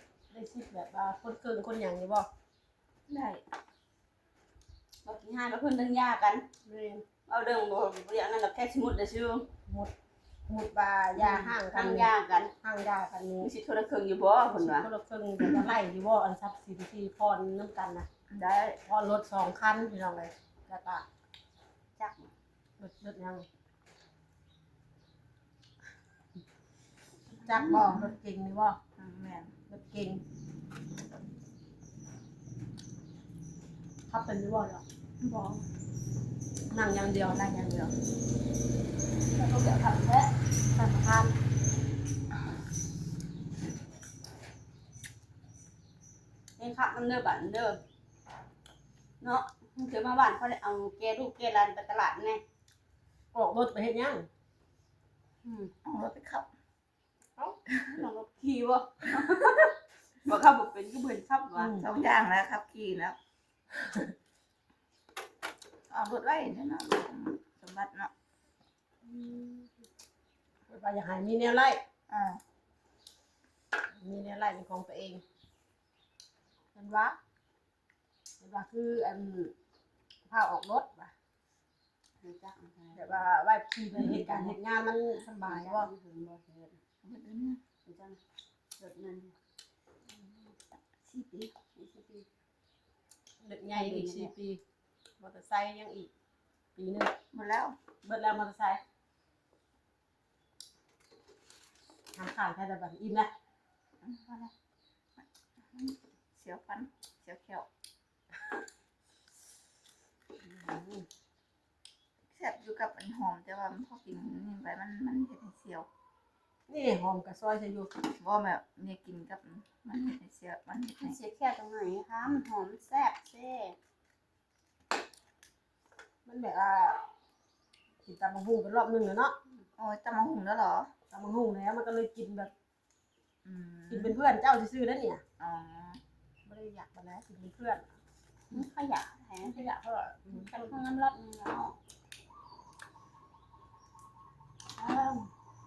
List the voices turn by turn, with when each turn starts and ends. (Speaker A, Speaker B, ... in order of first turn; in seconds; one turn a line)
Speaker A: 0.3-2.2
Speaker B: 3.1-3.4
Speaker C: 5.0-6.5
Speaker A: 6.6-7.0
Speaker C: 7.3-9.5
Speaker A: 9.7-9.9
Speaker A: 10.5-13.5
Speaker C: 11.2-12.5
Speaker C: 13.4-14.9
Speaker A: 14.5-18.1
Speaker B: 18.3-18.8
Speaker A: 18.9-21.0
Speaker C: 22.0-22.3
Speaker A: 22.8-23.4
Speaker B: 27.3-28.1
Speaker A: 27.4-28.8
Speaker B: 29.0-29.5
Speaker A: 29.7-30.2
Speaker A: 34.1-34.8
Speaker B: 35.2-35.7
Speaker A: 36.7-37.4
Speaker B: 37.2-37.9
Speaker C: 39.3-40.3
Speaker A: 40.7-41.3
Speaker C: 46.6-47.8
Speaker C: 49.2-52.4
Speaker A: 53.3-54.3
Speaker C: 55.4-55.7
Speaker B: 55.8-56.5
Speaker C: 57.9-59.7
Speaker C: 60.2-61.8
Speaker A: 61.5-61.9
Speaker B: 61.8-63.2
Speaker A: 63.7-64.1
Speaker B: 65.9-68.1
Speaker A: 69.0-69.7
Speaker A: 70.7-71.8
Speaker B: 72.1-72.4
Speaker A: 74.0-75.2
Speaker A: 76.7-77.2
Speaker A: 78.4-79.5
Speaker A: 80.2-81.1
Speaker C: 82.2-83.2
Speaker A: 82.9-85.9
Speaker C: 83.9-84.6
Speaker C: 85.4-86.8
Speaker B: 87.0-87.6
Speaker C: 87.8-88.2
Speaker C: 88.8-89.3
Speaker B: 90.8-91.5
Speaker C: 91.7-92.3
Speaker A: 93.4-94.6
Speaker C: 93.7-94.3
Speaker A: 95.2-96.1
Speaker A: 96.8-97.1
Speaker B: 97.3-97.8
Speaker A: 98.0-98.8
Speaker A: 102.2-103.3
Speaker B: 104.0-104.5
Speaker B: 105.2-107.7
Speaker A: 110.4-111.1
Speaker B: 112.3-115.9
Speaker A: 116.7-117.9
Speaker B: 118.2-121.2
Speaker C: 121.0-123.8
Speaker A: 126.2-127.0
Speaker A: 128.0-129.3
Speaker B: 129.8-130.9
Speaker A: 131.1-132.5
Speaker B: 133.4-134.2
Speaker A: 133.9-135.2
Speaker B: 135.4-136.0
Speaker A: 136.4-137.9
Speaker C: 138.5-139.7
Speaker A: 139.4-140.8
Speaker C: 140.3-141.7
Speaker C: 144.8-145.3